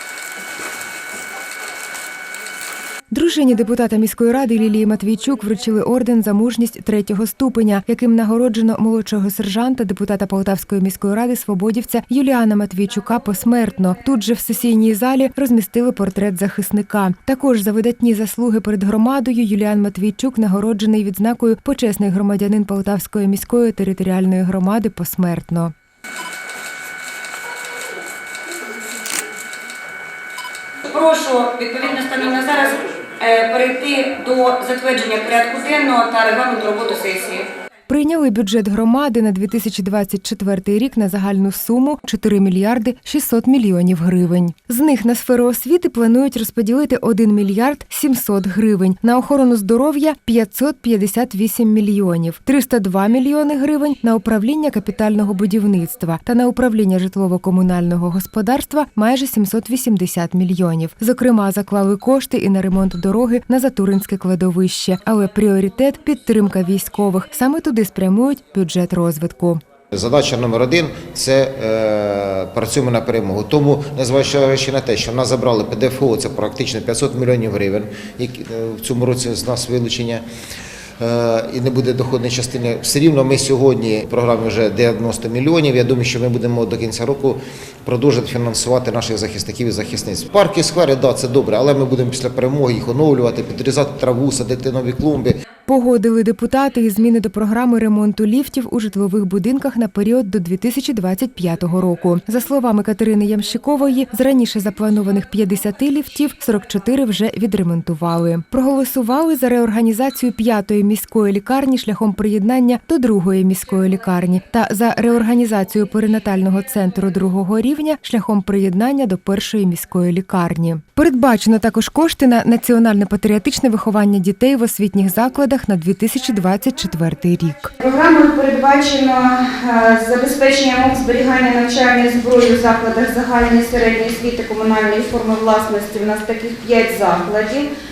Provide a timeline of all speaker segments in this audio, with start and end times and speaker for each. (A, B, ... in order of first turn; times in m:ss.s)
0:03.1-0:25.7 A
0:30.9-0:37.5 B
0:37.9-1:09.6 A
1:09.9-1:20.2 C
1:21.0-1:35.4 C
1:35.7-2:07.7 A
2:07.8-2:17.7 D